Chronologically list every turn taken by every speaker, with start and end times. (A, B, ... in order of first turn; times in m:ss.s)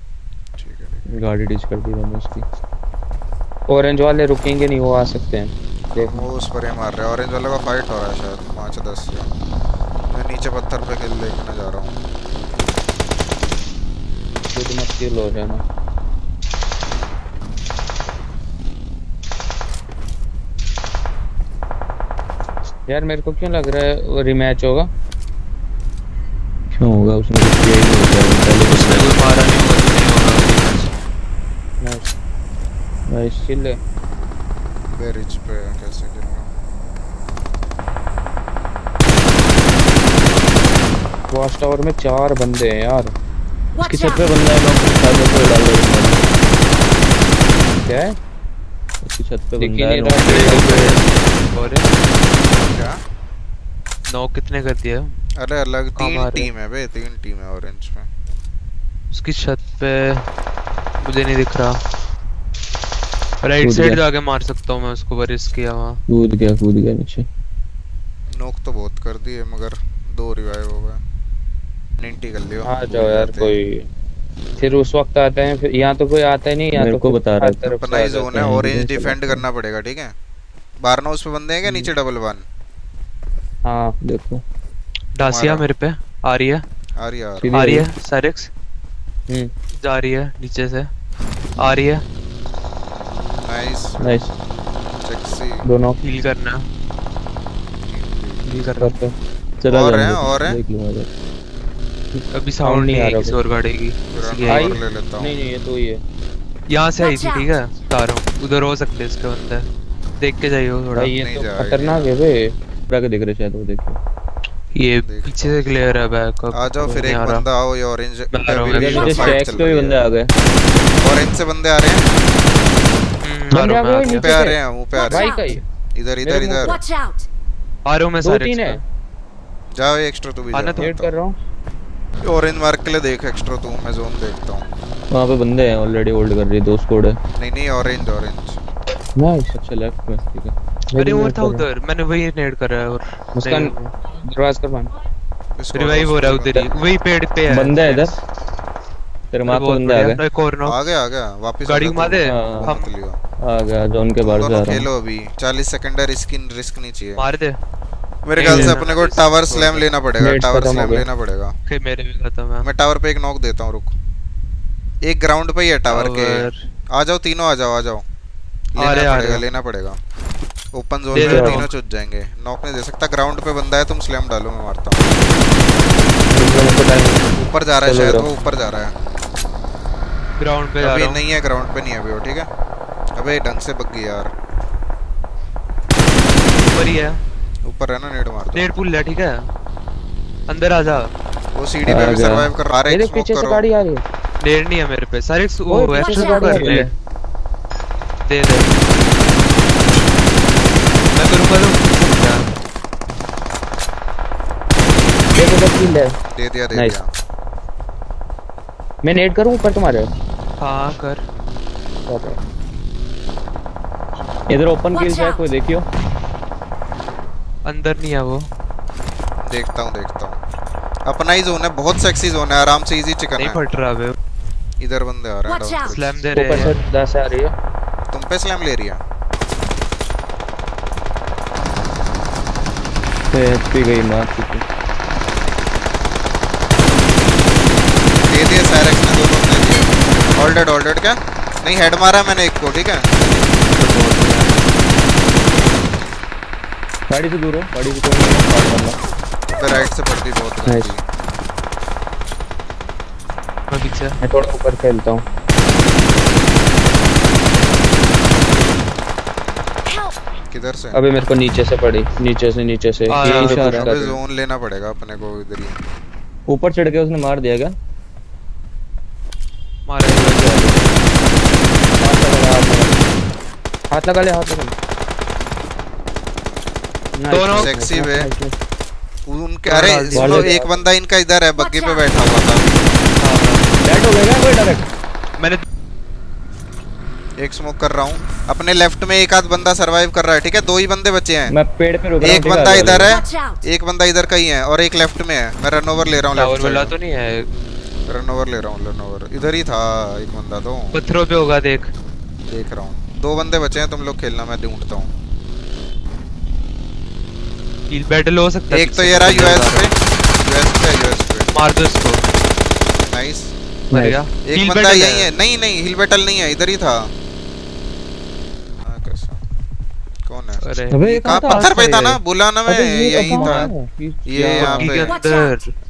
0:00.6-0:01.0 A
0:01.1-0:02.4 B
0:03.7-0:06.3 C
0:05.9-0:09.3 A
0:10.1-0:12.0 A
0:14.5-0:15.6 C
0:22.9-0:24.9 C
0:26.8-0:29.1 B
0:28.7-0:30.9 D
0:31.8-0:32.1 C
0:33.1-0:33.4 B
0:33.4-0:33.8 C
0:35.0-0:36.5 A
0:41.3-0:43.1 C
0:43.8-0:46.2 B
0:47.8-0:48.1 C
0:49.0-0:50.7 B
0:49.6-0:51.0 C
0:50.2-0:51.9 D
0:52.6-0:53.0 A
0:54.1-0:55.1 D
0:55.4-0:58.1 A
0:56.0-0:56.5 D
0:59.1-1:00.2 D
1:01.0-1:01.8 D
1:03.4-1:06.0 D
1:03.6-1:04.0 B
1:06.1-1:07.2 B
1:08.3-1:11.0 A
1:12.0-1:13.6 A
1:12.6-1:13.8 C
1:14.6-1:18.5 C
1:16.7-1:17.7 B
1:17.8-1:20.1 A
1:18.3-1:19.4 B
1:20.8-1:22.4 A
1:23.6-1:23.9 C
1:24.0-1:24.4 B
1:25.2-1:26.6 D
1:25.2-1:25.6 A
1:27.0-1:27.5 A
1:27.4-1:27.9 B
1:27.5-1:28.5 D
1:29.8-1:30.9 D
1:31.6-1:32.0 D
1:33.4-1:34.2 A
1:34.0-1:34.3 B
1:35.0-1:35.6 A
1:35.7-1:36.0 C
1:36.0-1:36.6 D
1:37.8-1:38.4 A
1:38.4-1:39.0 D
1:38.8-1:39.1 C
1:39.6-1:41.1 B
1:39.7-1:40.6 A
1:42.2-1:43.4 C
1:42.3-1:44.8 D
1:44.1-1:45.3 A
1:44.4-1:46.0 C
1:46.7-1:49.7 D
1:50.2-1:51.1 D
1:50.9-1:52.5 C
1:51.1-1:52.1 A
1:52.9-1:54.0 B
1:54.8-1:57.5 D
1:55.0-2:00.1 A
1:58.3-1:59.4 D
1:58.7-2:00.3 B
1:59.0-1:59.3 C
2:01.0-2:02.1 A
2:03.2-2:04.3 D
2:03.5-2:05.6 C
2:04.0-2:05.4 A
2:05.9-2:06.9 A
2:06.2-2:06.8 C
2:07.9-2:08.8 D
2:08.2-2:08.8 C
2:09.7-2:11.1 A
2:10.5-2:10.9 D
2:10.8-2:11.4 C
2:12.2-2:14.6 A
2:15.1-2:17.2 B
2:17.4-2:18.6 A
2:19.2-2:19.5 C
2:19.5-2:20.5 B
2:20.9-2:21.6 C
2:21.0-2:23.8 D
2:23.4-2:23.8 C
2:24.3-2:24.9 C
2:25.6-2:26.7 A
2:25.7-2:28.1 D
2:27.5-2:28.1 B
2:29.3-2:30.2 B
2:29.5-2:30.8 D
2:30.6-2:33.2 A
2:31.6-2:32.9 D
2:32.2-2:32.7 B
2:33.5-2:34.9 B
2:34.2-2:37.2 A
2:37.2-2:37.6 D
2:38.2-2:41.5 A
2:38.3-2:39.9 D
2:38.4-2:38.8 C
2:40.2-2:41.1 C
2:41.7-2:42.6 D
2:42.6-2:43.9 A
2:45.0-2:46.3 A
2:45.9-2:46.6 D
2:46.9-2:48.0 A
2:48.8-2:50.0 A
2:48.8-2:49.4 D
2:50.7-2:55.1 A
2:51.1-2:51.7 D
2:51.1-2:51.6 C
2:56.3-2:57.3 C
2:57.3-2:58.9 A
2:57.8-2:58.3 C
3:00.4-3:01.2 D
3:00.8-3:02.5 A
3:03.2-3:04.3 A
3:06.7-3:07.2 D
3:07.6-3:08.7 A
3:08.5-3:09.3 D
3:10.5-3:11.1 D
3:11.5-3:13.6 A
3:11.8-3:12.5 B
3:12.9-3:14.0 C
3:14.4-3:16.9 D
3:15.7-3:16.9 C
3:16.3-3:16.9 B
3:18.2-3:18.7 D
3:21.2-3:22.4 D
3:25.3-3:26.2 C
3:26.3-3:27.1 A
3:26.7-3:27.0 C
3:29.0-3:30.1 C
3:30.6-3:31.2 D
3:32.1-3:32.4 C
3:34.5-3:35.8 B
3:37.6-3:38.5 D
3:39.4-3:40.4 A
3:41.0-3:43.6 A
3:43.4-3:44.1 D
3:44.8-3:46.7 A
3:45.8-3:46.8 D
3:46.3-3:47.5 C
3:48.1-3:49.0 A
3:53.3-3:54.6 B
3:58.3-4:03.1 A
4:03.7-4:04.6 D
4:07.1-4:09.0 B
4:09.5-4:11.0 A
4:10.6-4:10.9 C
4:13.7-4:14.1 D
4:14.2-4:15.2 C
4:20.5-4:21.0 A
4:20.9-4:24.2 C
4:23.1-4:23.5 D
4:23.2-4:23.9 B
4:23.4-4:25.8 A
4:26.5-4:27.7 B
4:29.8-4:30.8 D
4:32.0-4:33.0 C
4:33.9-4:34.7 C
4:37.2-4:38.5 C
4:37.3-4:37.7 D
4:37.5-4:38.3 A
4:39.3-4:42.8 A
4:39.7-4:40.4 D
4:40.1-4:40.7 B
4:43.2-4:43.7 D
4:43.8-4:44.9 B
4:45.4-4:45.6 D
4:47.4-4:51.5 A
4:51.5-4:53.1 B
4:52.2-4:56.9 A
4:56.3-4:57.5 D
4:58.1-5:01.0 A
5:00.9-5:01.9 D
5:02.5-5:05.1 A
5:07.9-5:09.9 D
5:08.7-5:11.5 A
5:11.5-5:12.2 D
5:13.1-5:13.5 A
5:13.9-5:14.2 C
5:13.9-5:15.3 D
5:14.4-5:17.1 A
5:18.8-5:19.4 A
5:20.2-5:23.7 A
5:20.6-5:22.0 D
5:20.9-5:22.2 B
5:22.7-5:25.1 C
5:23.2-5:23.7 B
5:24.3-5:25.2 A
5:24.6-5:25.7 D